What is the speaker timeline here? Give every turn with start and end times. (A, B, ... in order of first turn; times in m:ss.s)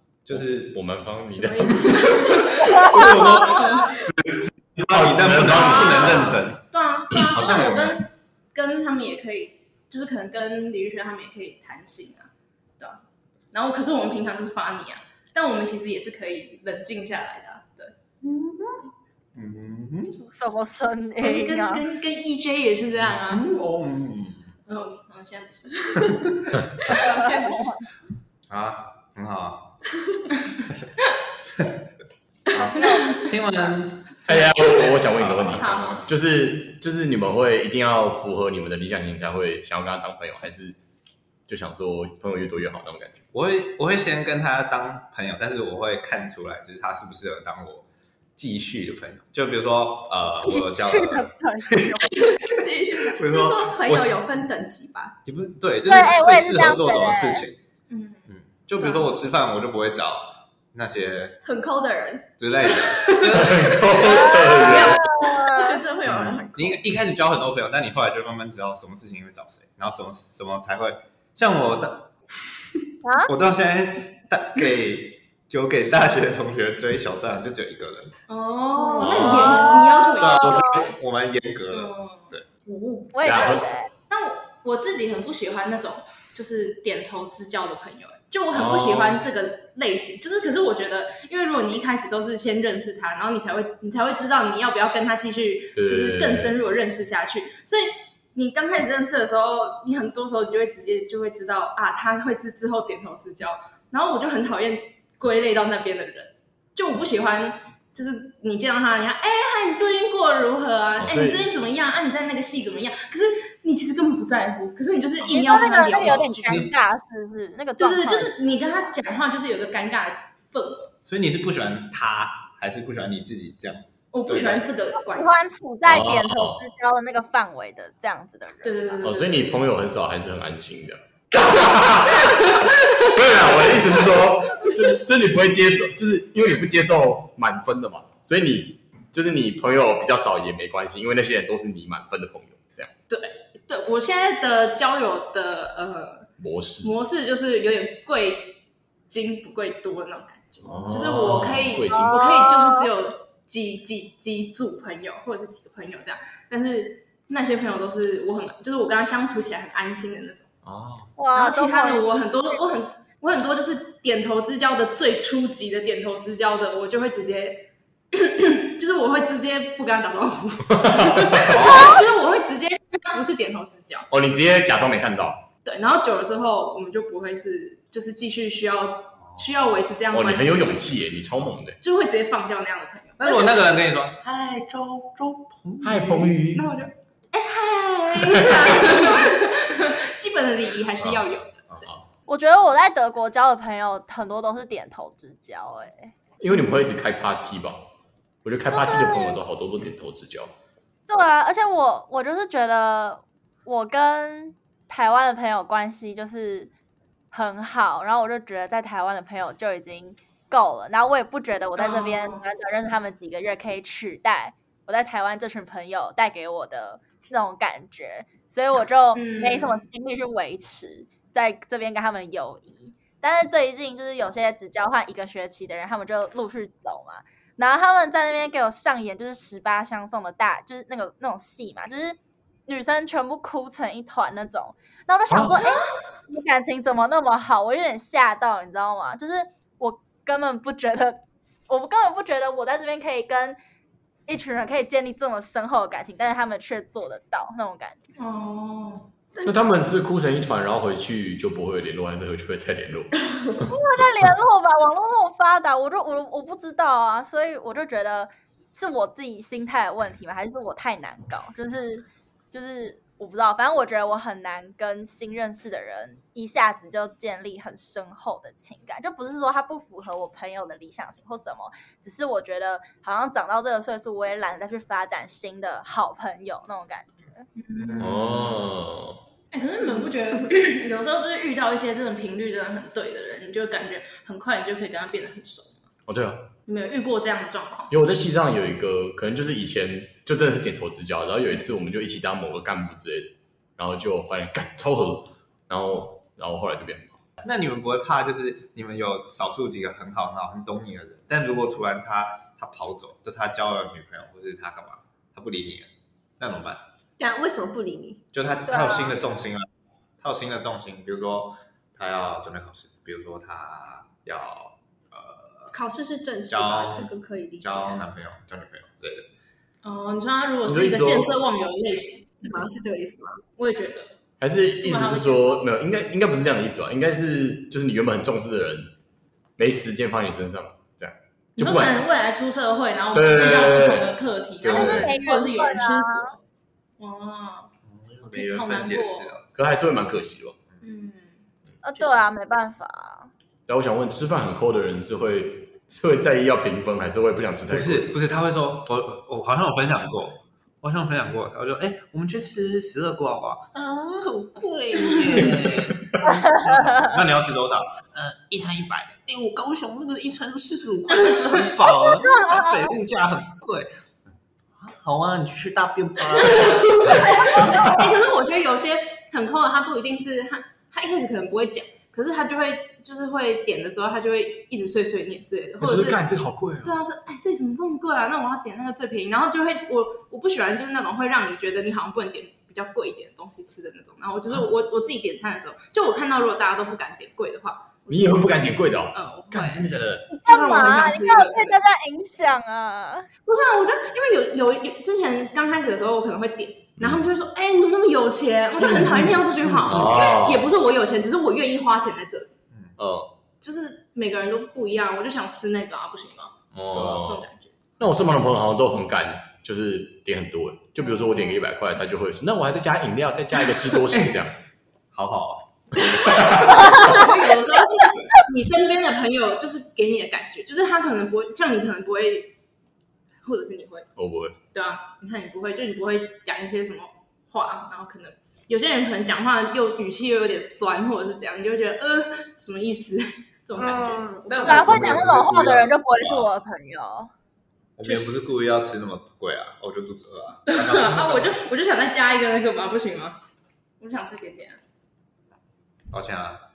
0:00.2-0:00.8 A
0:00.3-0:02.3 B
0:01.3-0:04.0 C
0:01.8-0:06.6 A
0:02.6-0:03.7 D
0:04.8-0:06.4 B
0:05.5-0:13.0 C
0:07.2-0:08.0 B
0:13.5-0:17.9 C
0:18.2-0:20.1 A
0:20.3-0:21.8 D
0:21.2-0:23.5 C
0:23.3-0:24.5 A
0:24.7-0:27.6 C
0:26.9-0:27.7 E
0:28.5-0:29.7 A
0:32.5-0:34.5 A
0:32.7-0:33.2 D
0:34.2-0:40.8 B
0:35.1-0:36.0 A
0:35.6-0:36.0 C
0:41.5-0:43.2 B
0:43.3-0:47.8 A
0:48.4-0:52.5 A
0:50.4-0:52.1 D
0:52.3-0:55.2 E
0:53.0-0:54.2 A
0:55.2-0:57.6 A
0:55.8-0:57.5 D
0:57.9-0:58.3 C
0:58.3-1:01.4 A
1:01.4-1:03.5 E
1:02.4-1:04.8 A
1:03.3-1:05.1 B
1:04.0-1:05.8 D
1:04.4-1:06.9 E
1:06.0-1:12.1 A
1:13.0-1:13.3 D
1:13.2-1:18.2 A
1:18.3-1:21.0 C
1:18.8-1:19.1 E
1:19.0-1:19.6 B
1:19.0-1:22.4 A
1:19.3-1:20.7 D
1:21.7-1:22.3 C
1:22.7-1:23.1 E
1:23.1-1:23.9 D
1:23.2-1:23.6 B
1:24.1-1:56.7 C
1:28.5-1:29.2 B
1:35.8-1:36.5 B
1:51.0-1:51.5 B
1:55.2-1:58.3 D
1:56.0-1:56.7 A
1:57.8-2:00.9 C
2:01.0-2:04.6 A
2:04.1-2:05.5 C
2:05.0-2:09.0 D
2:05.8-2:06.6 B
2:08.6-2:09.5 C
2:09.0-2:22.9 B
2:12.2-2:13.0 C
2:23.1-2:26.3 C
2:26.4-2:27.0 B
2:26.8-2:40.5 C
2:30.6-2:32.4 B
2:31.9-2:32.9 D
2:40.6-2:41.1 B
2:41.2-2:42.0 D
2:41.3-2:54.1 C
2:50.7-2:52.0 B
2:51.6-2:52.0 D
2:54.1-2:55.4 B
2:55.6-3:00.9 C
3:00.1-3:01.8 B
3:01.8-3:03.7 C
3:03.2-3:06.4 A
3:05.8-3:06.7 B
3:06.5-3:11.7 C
3:08.2-3:08.7 B
3:11.7-3:12.0 B
3:12.3-3:16.1 D
3:16.4-3:17.8 B
3:18.4-3:20.5 B
3:18.7-3:19.4 D
3:21.1-3:26.7 D
3:27.3-4:03.6 D
3:31.8-3:32.4 C
3:39.1-3:39.8 C
3:55.3-3:55.6 B
4:04.3-4:08.0 D
4:08.2-4:09.1 C
4:09.4-4:13.7 B
4:13.7-4:37.4 D
4:37.6-4:38.4 C
4:38.0-4:39.2 B
4:39.5-4:45.9 C
4:46.1-4:46.5 B
4:46.7-4:48.0 C
4:47.9-4:57.2 B
4:57.4-5:06.8 A
5:07.2-5:08.2 E
5:08.3-5:09.7 A
5:08.6-5:09.2 D
5:10.2-5:15.7 A
5:15.7-5:18.0 E
5:16.5-5:19.3 A
5:19.8-5:22.4 C
5:20.6-5:21.4 B
5:22.4-5:23.4 E
5:23.6-5:24.2 C
5:24.4-5:28.9 B
5:24.8-5:25.6 C
5:29.6-5:32.0 B
5:31.6-5:36.4 C
5:33.1-5:35.2 B
5:34.7-5:36.3 D
5:37.0-5:37.7 C
5:37.9-5:39.4 A
5:38.3-5:39.4 C
5:39.5-5:40.6 B
5:40.8-5:41.4 C
5:41.8-5:43.3 D
5:43.7-5:48.1 B
5:47.7-6:03.9 A
6:02.2-6:02.9 D
6:04.8-6:08.0 A
6:06.3-6:16.2 C
6:07.6-6:08.0 B
6:15.8-6:17.0 B
6:16.8-6:28.2 C
6:28.1-6:30.3 B
6:29.1-6:29.8 C
6:30.3-6:33.3 D
6:30.4-6:31.8 C
6:33.4-6:42.5 C
6:37.0-6:37.3 B
6:39.8-6:40.7 B
6:39.9-6:40.2 A
6:43.0-6:43.3 B
6:43.6-6:46.6 C
6:46.7-6:47.4 B
6:46.9-6:47.3 A
6:47.2-6:47.7 C
6:48.0-6:54.5 B
6:55.1-6:57.4 A
6:56.2-6:57.2 B
6:56.8-7:02.5 C
7:03.4-7:04.1 C
7:04.2-7:04.6 B
7:04.7-7:14.2 C
7:13.8-7:15.2 E
7:13.8-7:16.5 A
7:14.6-7:17.3 D
7:18.0-7:21.6 A
7:18.0-7:18.4 C
7:20.7-7:23.4 C
7:24.0-7:24.8 C
7:26.1-7:26.6 A